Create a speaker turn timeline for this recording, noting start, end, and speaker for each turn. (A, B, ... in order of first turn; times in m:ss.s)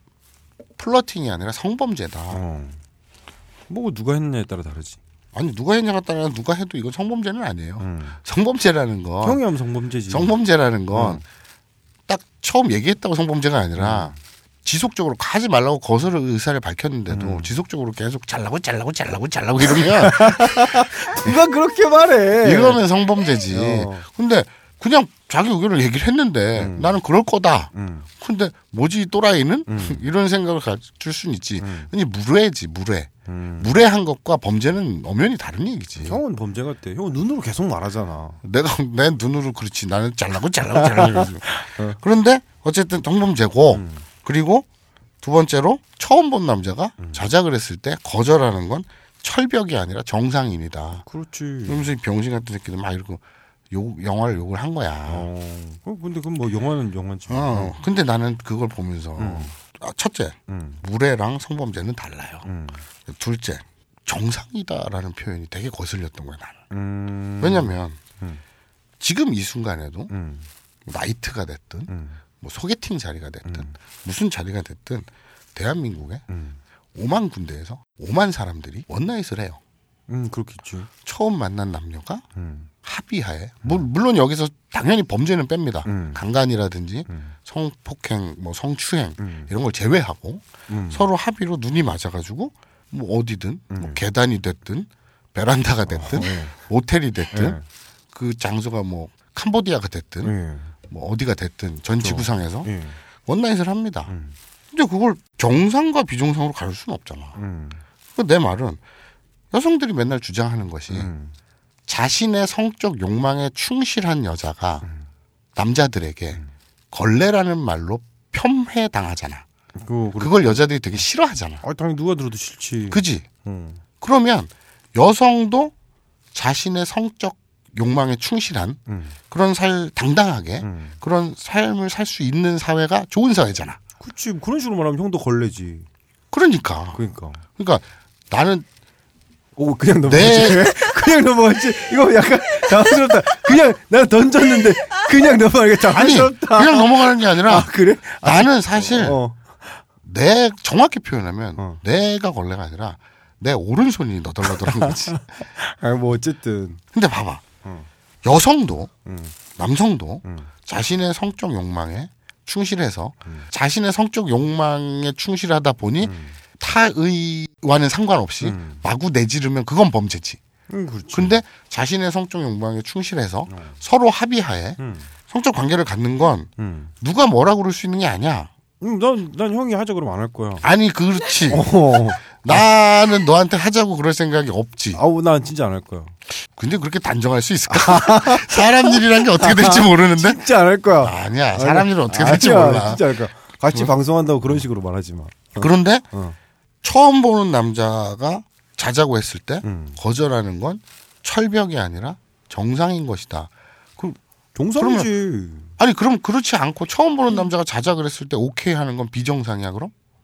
0:00.8-0:02.4 A
0:02.3-0:02.8 B
0:03.7-0:05.0 B
0:05.3-0:09.4 A
0:07.8-0:08.2 B
0:09.2-0:10.4 B
0:10.1-0:11.2 A
0:10.9-0:11.2 B
0:12.1-0:21.4 A
0:13.8-0:14.2 B
0:17.1-0:17.6 B
0:19.8-0:22.8 B
0:22.4-0:36.2 A
0:23.5-0:24.1 B
0:26.6-0:27.0 B
0:27.7-0:28.1 B
0:29.7-0:30.0 B
0:31.6-0:31.9 B
0:33.3-0:33.7 B
0:36.0-0:38.4 B
0:38.4-0:44.7 A
0:40.8-0:42.0 B
0:43.7-0:44.0 B
0:45.2-0:51.0 A
0:47.0-0:47.3 B
0:51.0-0:51.9 B
0:51.7-0:55.3 A
0:55.1-0:57.8 B
0:57.3-1:02.5 A
0:59.2-0:59.5 B
1:00.5-1:00.8 B
1:02.4-1:02.8 B
1:03.1-1:06.6 A
1:06.7-1:08.4 B
1:07.4-1:08.0 A
1:09.0-1:10.1 A
1:10.1-1:10.5 B
1:10.8-1:11.9 A
1:11.9-1:12.2 B
1:12.4-1:16.2 A
1:13.4-1:13.8 B
1:16.3-1:16.6 B
1:17.0-1:19.6 A
1:20.1-1:20.9 B
1:21.0-1:22.2 A
1:22.4-1:22.7 B
1:22.8-1:37.6 A
1:25.8-1:26.2 B
1:27.1-1:27.4 B
1:29.2-1:29.5 B
1:30.7-1:31.1 B
1:33.7-1:34.0 B
1:35.9-1:36.6 B
1:37.3-1:37.6 B
1:38.1-1:40.3 A
1:40.2-1:40.7 B
1:40.9-1:42.7 A
1:42.0-1:43.0 B
1:43.2-1:44.1 A
1:44.1-1:44.4 B
1:44.7-1:47.4 A
1:47.4-1:47.8 B
1:48.2-1:48.8 A
1:49.5-1:51.1 A
1:50.9-1:51.3 B
1:51.9-1:54.8 A
1:55.6-1:56.4 A
1:56.9-1:59.4 A
1:59.8-2:01.0 B
2:00.2-2:01.6 A
2:01.6-2:03.8 B
2:02.9-2:03.3 A
2:04.0-2:05.7 A
2:06.3-2:13.8 A
2:08.9-2:09.2 B
2:10.6-2:11.0 B
2:14.0-2:15.9 B
2:16.3-2:17.0 A
2:16.9-2:17.4 B
2:17.6-2:18.7 A
2:19.6-2:29.8 B
2:20.1-2:20.8 A
2:25.9-2:27.7 A
2:28.2-2:29.2 A
2:30.0-2:35.2 A
2:34.5-2:36.8 B
2:36.9-2:37.4 A
2:38.2-2:38.9 A
2:39.0-2:39.4 B
2:39.5-2:50.4 A
2:40.2-2:40.5 B
2:46.0-2:46.4 B
2:48.4-2:48.8 B
2:50.7-2:51.4 B
2:51.1-2:56.5 A
2:53.5-2:53.8 B
2:54.8-2:55.1 B
2:56.6-2:56.9 B
2:57.0-2:58.5 A
2:58.8-3:00.7 B
3:00.6-3:01.7 A
3:01.5-3:02.7 B
3:02.2-3:05.0 A
3:04.9-3:06.2 B
3:06.5-3:10.5 A
3:07.7-3:16.4 B
3:11.0-3:13.0 A
3:15.6-3:16.1 A
3:16.8-3:24.2 A
3:19.6-3:20.0 B
3:24.6-3:25.7 B
3:24.8-3:25.1 A
3:25.8-3:29.9 A